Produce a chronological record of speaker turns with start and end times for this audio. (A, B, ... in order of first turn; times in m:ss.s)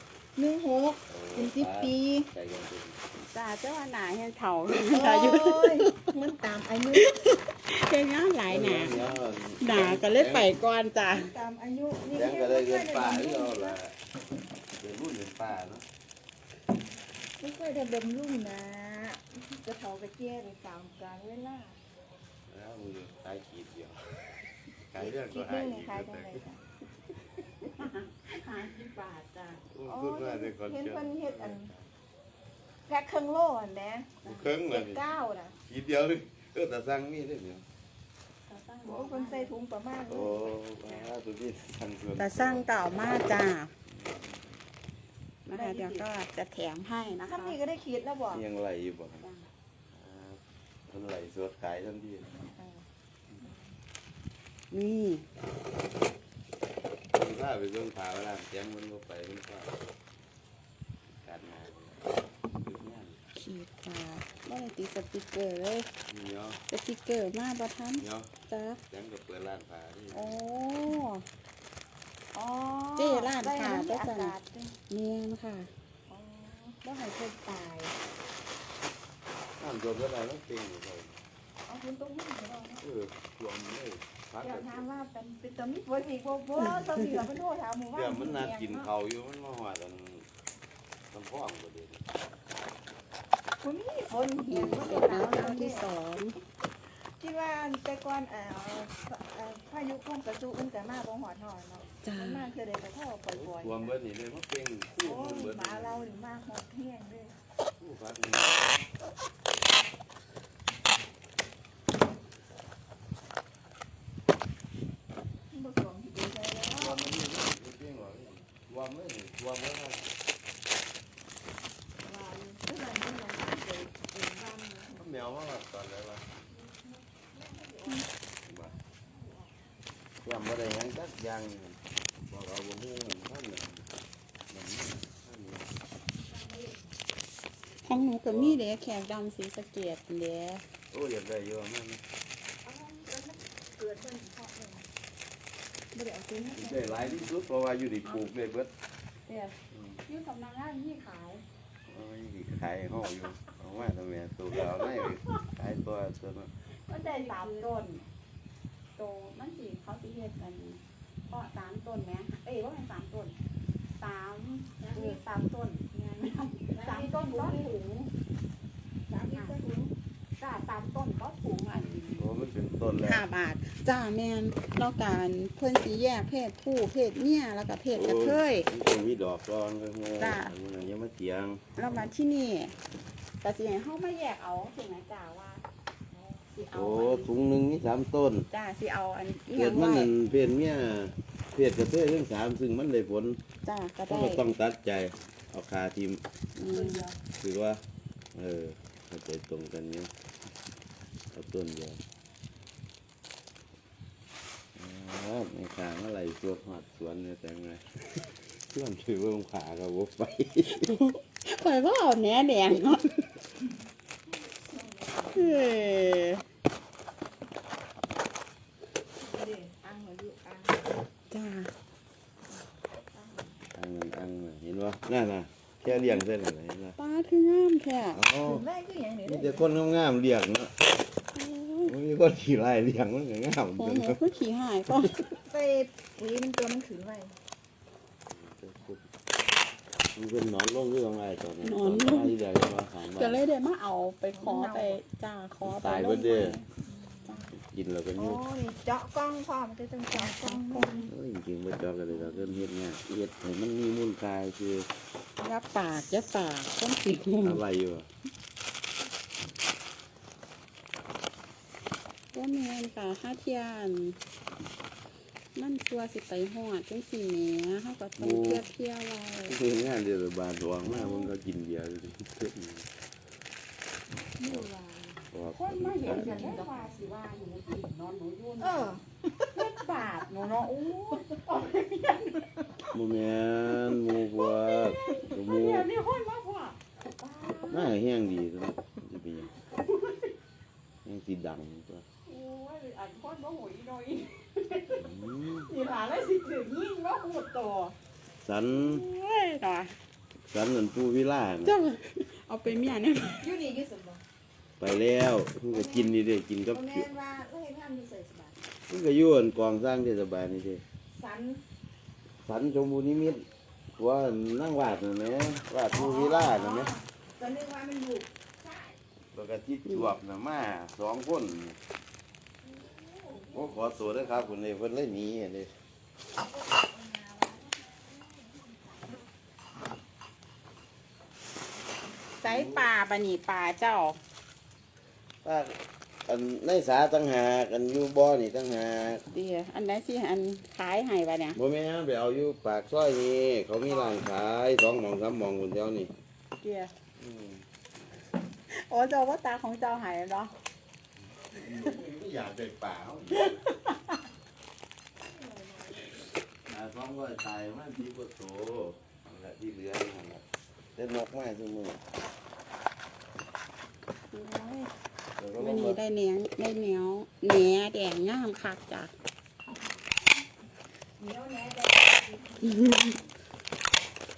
0:00.4-0:02.3 A
0:01.1-0:03.0 B
0:03.3-0:06.1 C
0:04.8-0:07.1 A
0:06.9-0:09.0 C
0:08.5-0:10.5 B
0:09.6-0:11.3 C
0:11.1-0:13.8 A
0:12.1-0:14.0 B
0:14.8-0:15.8 B
0:17.4-0:21.8 A
0:22.5-0:26.4 B
0:25.0-0:26.6 A
0:27.6-0:29.6 C
0:29.7-0:31.9 B
0:29.8-0:31.7 A
0:32.9-0:34.1 A
0:34.2-0:34.5 C
0:34.2-0:35.0 B
0:34.7-0:35.5 A
0:35.6-0:37.6 B
0:38.5-0:39.5 C
0:38.8-0:40.6 A
0:40.1-0:42.6 B
0:42.2-0:43.7 C
0:43.9-0:44.6 B
0:45.4-0:47.6 C
0:45.5-0:46.0 A
0:47.2-0:48.4 A
0:48.3-0:49.2 B
0:49.2-0:49.5 C
0:49.9-0:52.3 B
0:52.5-0:52.8 A
0:53.4-0:53.7 A
0:54.7-0:55.3 C
0:57.1-0:59.8 B
1:01.2-1:03.2 B
1:03.3-1:05.9 C
1:06.1-1:06.6 B
1:06.7-1:08.8 C
1:08.0-1:08.3 B
1:08.9-1:10.4 B
1:10.1-1:11.2 C
1:12.3-1:14.7 A
1:13.0-1:14.3 C
1:14.9-1:15.7 C
1:16.1-1:17.9 A
1:16.8-1:17.6 C
1:19.6-1:21.2 B
1:21.7-1:22.8 A
1:22.8-1:24.9 B
1:24.4-1:28.9 A
1:27.9-1:30.3 B
1:31.1-1:32.0 B
1:33.6-1:35.9 A
1:34.5-1:36.4 C
1:36.8-1:43.9 A
1:42.0-1:42.5 C
1:43.3-1:46.1 B
1:45.0-1:47.4 A
1:47.8-1:48.8 B
1:55.5-1:57.0 A
1:56.7-2:00.1 B
2:02.0-2:05.3 A
2:04.9-2:06.2 B
2:06.5-2:08.1 A
2:08.4-2:08.7 B
2:08.9-2:09.6 A
2:10.2-2:13.8 B
2:14.5-2:15.7 B
2:16.3-2:16.9 A
2:17.8-2:20.6 C
2:18.3-2:18.6 B
2:20.9-2:22.0 B
2:22.6-2:24.9 A
2:25.9-2:27.2 C
2:26.5-2:28.7 B
2:28.0-2:28.3 C
2:29.2-2:31.4 C
2:29.7-2:30.0 B
2:31.8-2:36.5 B
2:36.9-2:38.0 C
2:36.9-2:37.8 A
2:38.9-2:43.4 C
2:43.9-2:48.1 C
2:44.8-2:45.2 A
2:46.7-2:47.7 A
2:49.1-2:49.9 A
2:49.3-2:49.6 C
2:50.4-2:52.3 C
2:52.2-2:53.2 B
2:53.0-2:58.7 C
2:57.9-3:01.6 B
3:00.2-3:00.5 C
3:01.8-3:02.7 C
3:03.4-3:07.3 C
3:06.7-3:08.5 B
3:08.5-3:10.1 C
3:09.5-3:13.4 B
3:13.6-3:14.4 C
3:14.1-3:16.2 B
3:16.6-3:17.1 C
3:16.7-3:17.2 A
3:17.4-3:17.8 B
3:18.3-3:20.1 B
3:21.3-3:22.0 B
3:24.8-3:30.8 B
3:30.7-3:33.2 C
3:34.3-3:36.1 A
3:35.3-3:36.4 C
3:39.2-3:41.0 A
3:41.3-3:41.7 C
3:43.1-3:43.5 A
3:43.7-3:46.9 B
3:47.0-3:48.2 C
3:48.1-3:48.6 B
3:48.4-3:49.7 A
3:49.2-3:50.7 B
3:51.3-3:51.9 C
3:51.8-3:54.2 B
3:53.8-3:55.4 C
3:55.3-3:57.3 A
3:58.3-3:59.0 B
4:00.2-4:03.4 B
4:01.6-4:02.3 C
4:03.0-4:06.7 C
4:04.3-4:05.0 A
4:05.6-4:06.6 B
4:06.8-4:07.5 A
4:07.5-4:08.4 B
4:08.1-4:11.1 A
4:10.1-4:11.1 C
4:11.1-4:14.9 B
4:15.4-4:17.6 C
4:17.4-4:18.1 B
4:22.3-4:24.2 C
4:25.5-4:29.6 C
4:28.2-4:28.6 B
4:29.5-4:32.9 B
4:30.9-4:31.3 C
4:34.3-4:35.3 A
4:34.4-4:34.7 B
4:35.3-4:36.6 B
4:35.5-4:38.9 C
4:38.6-4:39.7 A
4:39.5-4:42.4 C
4:42.9-4:45.9 B
4:44.4-4:47.9 C
4:47.7-4:49.5 B
4:49.8-4:50.3 C
4:51.0-4:52.0 B
4:52.2-4:55.0 C
4:55.0-4:55.7 B
4:55.7-4:57.9 C
4:58.4-4:59.0 B
4:58.7-4:59.9 C
5:00.5-5:01.8 B
5:01.6-5:03.5 C
5:03.4-5:04.2 A
5:04.8-5:07.1 B
5:05.7-5:06.1 A
5:06.7-5:08.6 A
5:08.9-5:10.8 B
5:11.1-5:11.6 A
5:12.4-5:16.9 B
5:15.9-5:19.0 A
5:19.3-5:21.8 B
5:19.8-5:20.1 C
5:22.6-5:24.5 A
5:23.5-5:25.7 B
5:26.4-5:29.2 A
5:32.4-5:34.2 C
5:32.4-5:32.9 B
5:35.4-5:39.2 B
5:39.3-5:41.6 C
5:41.5-5:46.1 B
5:46.6-5:46.9 C
5:47.2-5:47.6 B
5:48.7-5:50.5 C
5:51.5-5:53.6 B
5:55.2-5:56.3 A
5:56.7-6:00.4 B
6:01.0-6:02.0 B
6:04.3-6:04.9 C
6:05.4-6:06.0 B
6:05.6-6:09.1 C
6:11.2-6:12.8 A
6:12.6-6:13.2 C